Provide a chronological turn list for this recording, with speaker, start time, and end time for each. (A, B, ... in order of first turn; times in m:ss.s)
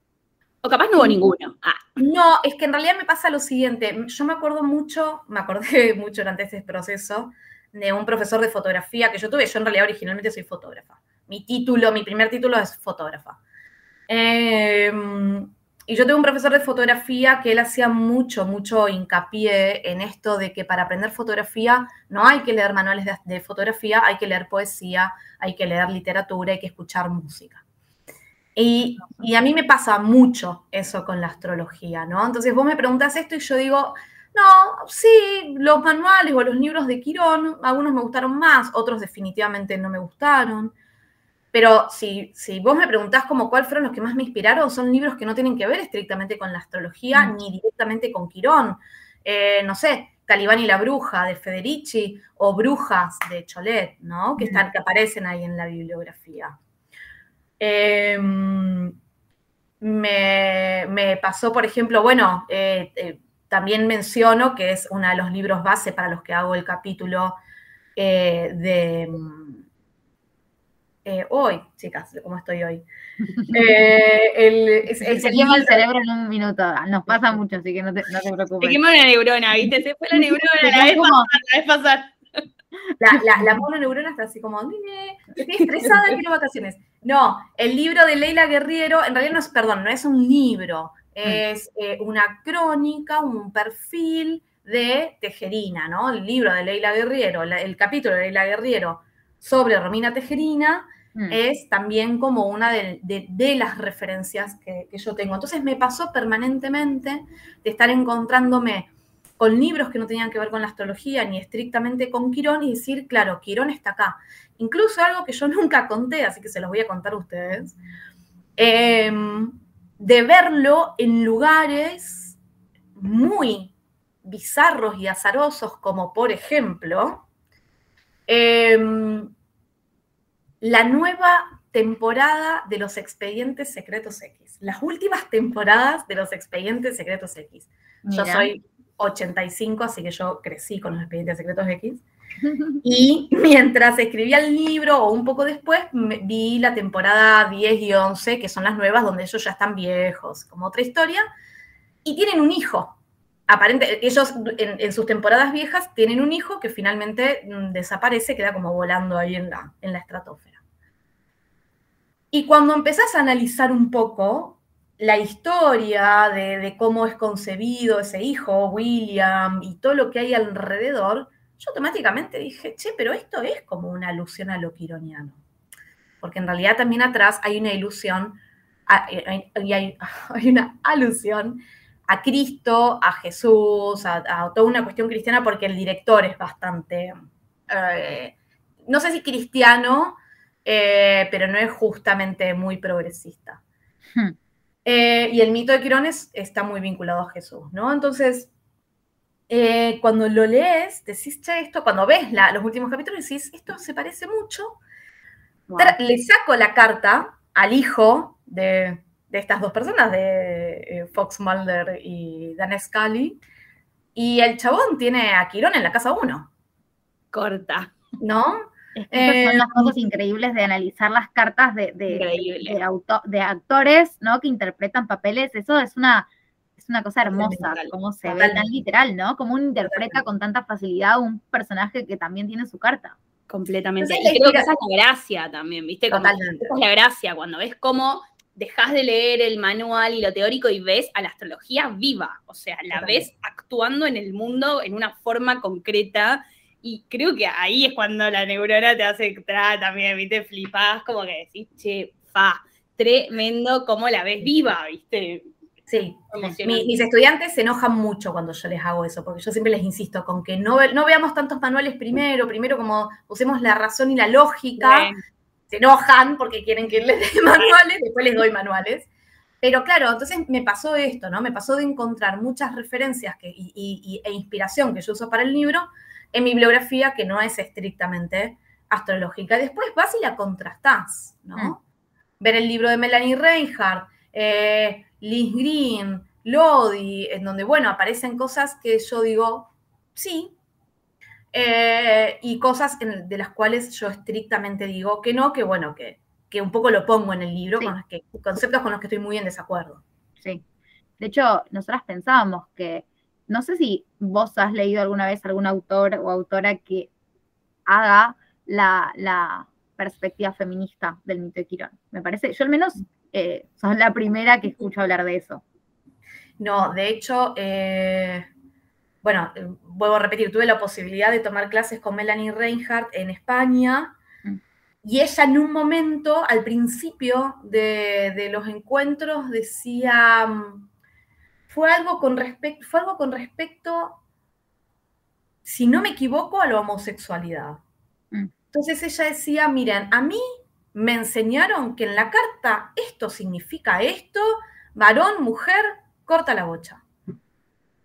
0:00.6-0:01.8 A
0:02.0-0:13.4 B
0:14.1-0:27.6 B
0:28.6-0:40.7 B
0:41.5-0:56.6 B
0:57.6-0:59.0 B
0:59.8-1:07.4 B
1:08.0-1:09.6 B
1:11.0-1:12.9 B
1:13.5-1:15.8 B
1:15.0-1:18.8 C
1:18.6-1:22.4 A
1:20.2-1:21.3 C
1:23.0-1:57.8 B
1:58.6-2:02.4 B
2:03.0-2:03.7 B
2:04.2-2:07.3 B
2:08.3-2:09.3 B
2:10.6-2:22.0 B
2:18.1-2:18.5 C
2:22.4-2:22.8 C
2:22.8-2:31.2 B
2:32.0-2:33.0 B
2:33.5-2:40.6 B
2:42.3-2:55.4 B
2:56.2-3:07.2 B
3:07.7-3:08.4 B
3:08.9-3:13.6 B
3:14.8-3:18.5 B
3:19.5-3:24.8 B
3:25.7-3:26.0 C
3:25.8-3:33.4 B
3:34.2-3:36.5 B
3:37.3-3:37.9 A
3:38.2-3:40.0 B
3:39.0-3:53.2 C
3:42.1-3:42.8 A
3:47.5-3:47.9 A
3:48.2-3:48.7 B
3:49.8-3:50.2 B
3:53.5-4:15.5 A
3:54.0-3:54.7 B
3:56.1-3:56.7 B
4:02.9-4:03.3 B
4:15.9-4:25.1 B
4:16.3-4:17.0 A
4:24.8-4:25.2 A
4:25.7-4:29.1 B
4:29.6-4:41.8 B
4:42.4-4:50.6 B
4:51.5-5:00.0 B
5:01.2-5:07.1 C
5:07.9-5:15.6 C
5:16.6-5:18.5 B
5:19.2-5:24.2 B
5:25.0-5:30.9 B
5:31.7-5:34.2 B
5:35.6-5:37.8 B
5:38.7-5:40.4 B
5:40.9-5:47.0 B